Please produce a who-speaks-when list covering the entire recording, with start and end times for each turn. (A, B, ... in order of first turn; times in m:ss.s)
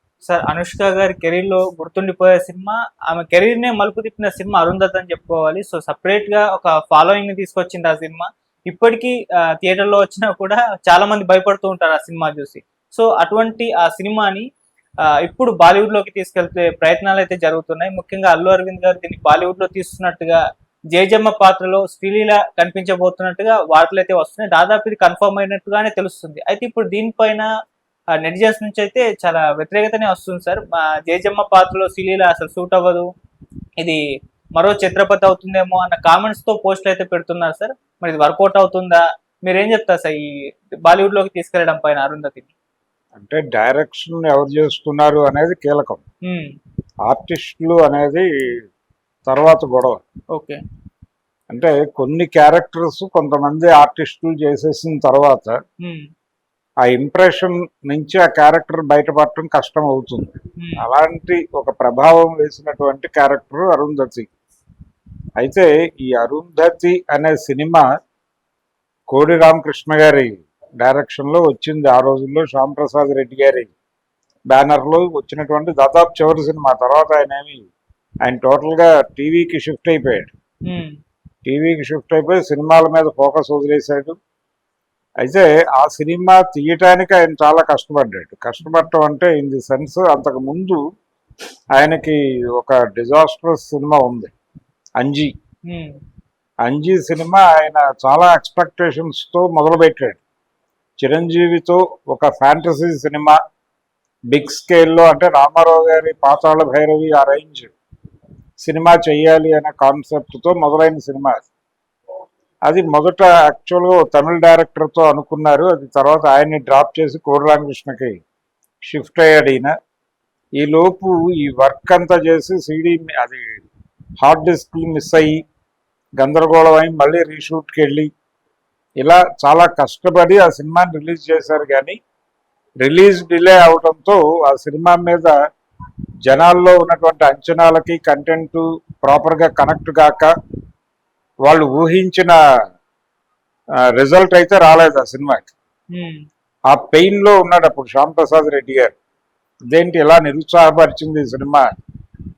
0:00.2-0:14.5 A
0:15.0-0:20.4 A
0:20.9-0:27.5 A
0:28.2-0:33.1 A
0:34.6-0:42.5 A
0:43.1-0:46.0 B
0:46.2-0:46.5 A
0:47.0-0:48.3 B
0:49.3-0:50.0 B
0:51.5-0:55.6 B
0:55.8-0:56.1 A
0:56.8-1:04.3 B
1:00.6-1:00.8 A
1:05.4-1:07.9 B
1:09.1-1:13.7 B
1:14.5-1:17.7 B
1:18.2-1:20.3 B
1:20.7-1:20.9 A
1:21.4-1:24.2 B
1:25.2-1:30.8 B
1:31.7-1:34.3 B
1:35.0-1:35.3 B
1:35.7-1:36.0 A
1:36.6-1:40.2 B
1:41.0-1:43.4 B
1:44.3-1:47.7 B
1:48.6-1:51.5 B
1:52.7-1:58.2 B
1:58.8-1:59.7 B
2:00.6-2:03.6 B
2:04.2-2:05.4 B
2:06.2-2:08.1 B
2:09.0-2:12.0 B
2:12.8-2:15.3 B
2:16.3-2:20.3 B
2:21.4-2:22.4 B
2:23.9-2:25.5 B
2:25.9-2:26.2 A
2:26.7-2:28.9 B
2:29.7-2:31.6 B